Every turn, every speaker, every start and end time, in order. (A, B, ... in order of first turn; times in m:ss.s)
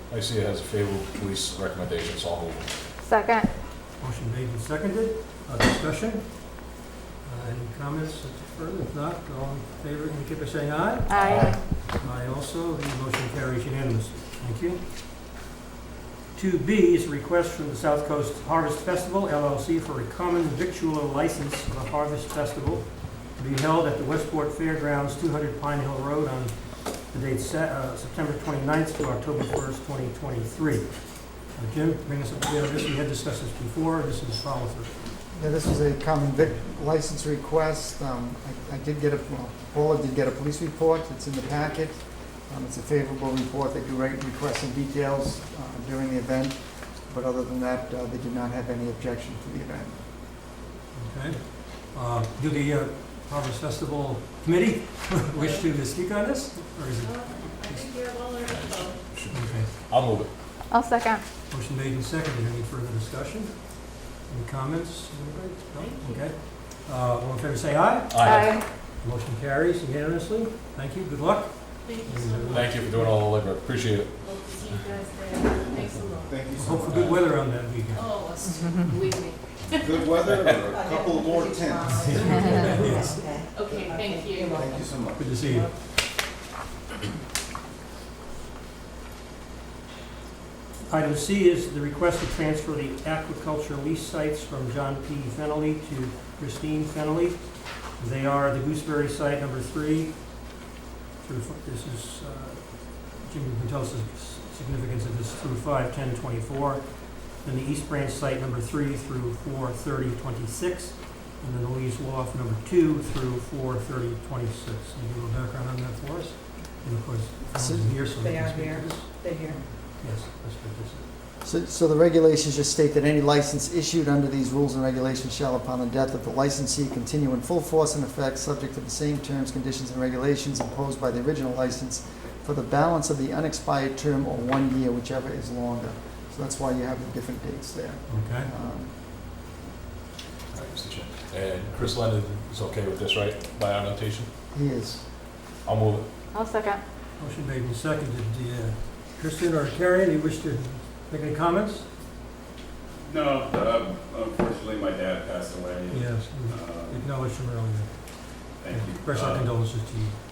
0:00.1-0:02.7 A
0:03.0-0:03.5 B
0:04.0-0:06.6 C
0:07.2-0:14.8 C
0:11.1-0:11.6 B
0:11.2-0:11.6 A
0:16.3-0:35.1 C
0:35.3-0:50.0 D
0:50.9-0:57.9 C
0:55.4-0:55.6 E
0:57.0-0:59.0 E
0:58.4-1:00.3 A
0:59.3-0:59.7 C
1:00.7-1:01.2 B
1:01.5-1:13.1 C
1:05.8-1:06.3 E
1:08.1-1:08.6 A
1:08.2-1:08.6 B
1:11.8-1:12.7 E
1:12.5-1:14.1 A
1:14.2-1:16.4 E
1:16.3-1:17.2 F
1:16.6-1:18.4 C
1:16.8-1:17.2 A
1:17.8-1:20.1 E
1:18.5-1:18.9 B
1:19.8-1:22.8 F
1:20.3-1:20.6 A
1:20.7-1:24.9 G
1:22.0-1:23.4 C
1:22.4-1:22.6 B
1:23.5-1:24.7 E
1:24.5-1:25.5 F
1:25.2-1:25.7 C
1:30.9-1:40.2 C
1:41.2-1:59.3 C
1:57.5-1:58.0 D
1:58.2-1:59.6 G
2:00.0-2:01.1 C
2:01.4-2:19.0 D
2:18.1-2:18.5 C
2:20.5-2:24.3 A
2:24.5-2:25.1 D
2:25.6-2:26.0 A
2:26.3-2:26.8 B
2:27.2-2:31.9 C
2:33.0-2:37.1 H
2:35.9-2:37.9 C
2:38.6-2:39.5 H
2:38.7-2:40.1 C